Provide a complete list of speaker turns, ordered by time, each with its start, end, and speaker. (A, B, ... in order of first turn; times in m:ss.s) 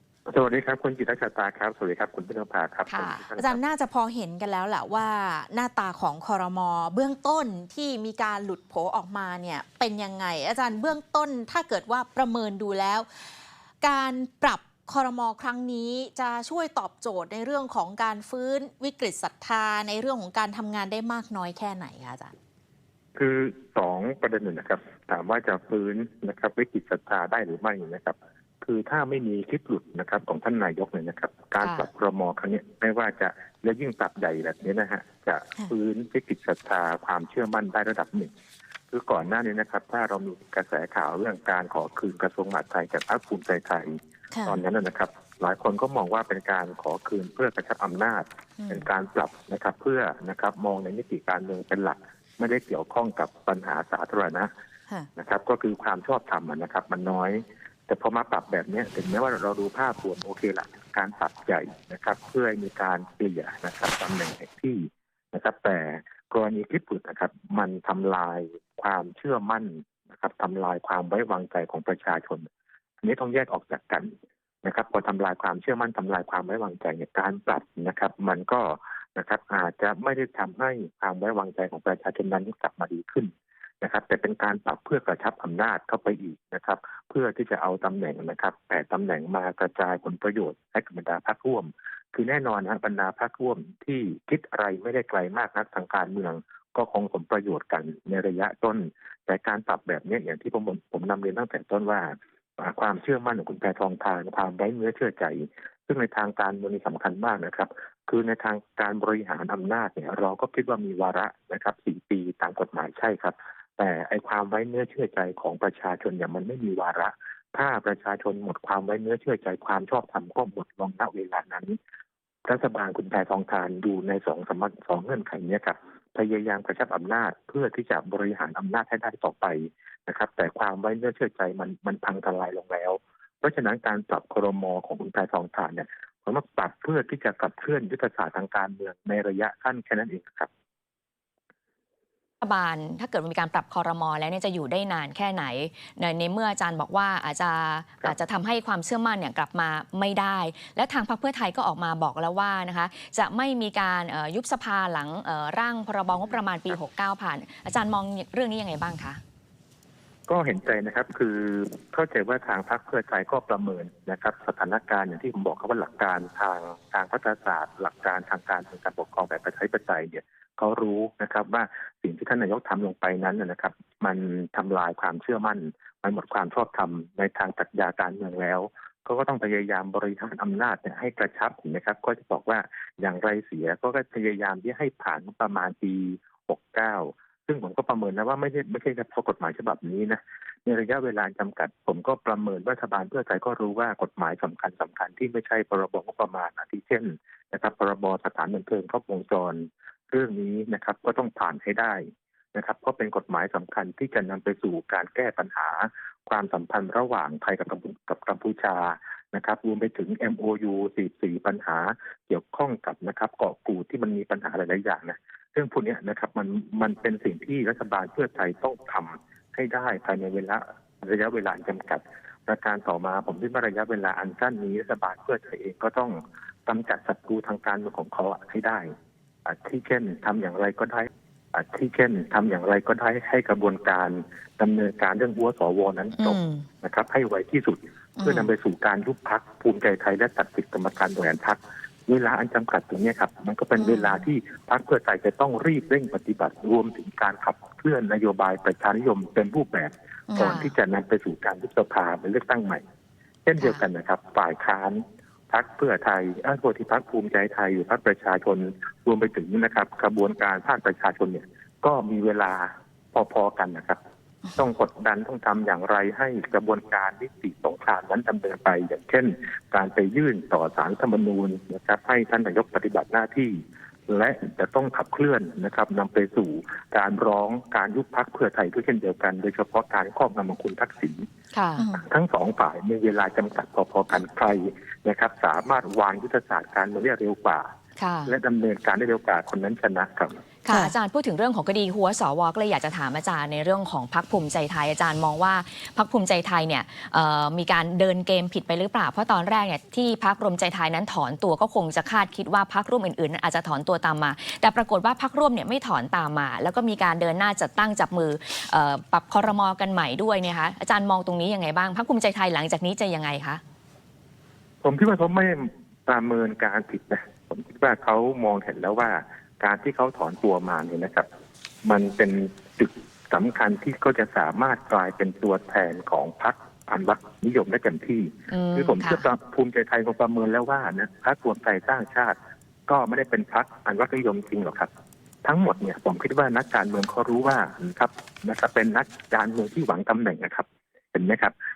0:00.3-0:03.6 A
0:02.9-0:03.2 B
0:03.4-0:22.3 C
0:23.1-0:38.3 A
0:31.6-0:31.9 B
0:38.9-0:54.5 A
0:44.3-0:44.6 C
0:48.6-0:48.9 C
0:55.2-1:12.5 A
1:13.0-1:14.1 A
1:14.6-2:01.8 A
2:02.5-2:20.5 A
2:22.4-2:39.2 B
2:40.3-3:48.9 A
3:49.4-4:12.8 A
3:56.2-3:56.6 B
3:58.2-3:58.5 C
4:03.8-4:04.1 C
4:10.3-4:10.6 C
4:10.3-4:10.7 B
4:13.4-4:24.0 A
4:24.6-4:41.2 A
4:41.5-4:41.8 B
4:41.9-4:47.6 A
4:48.0-4:48.3 B
4:48.3-4:50.4 A
4:50.6-5:13.6 B
5:14.8-5:21.3 A
5:21.8-5:34.9 A
5:28.5-5:29.3 B
5:35.4-5:41.5 A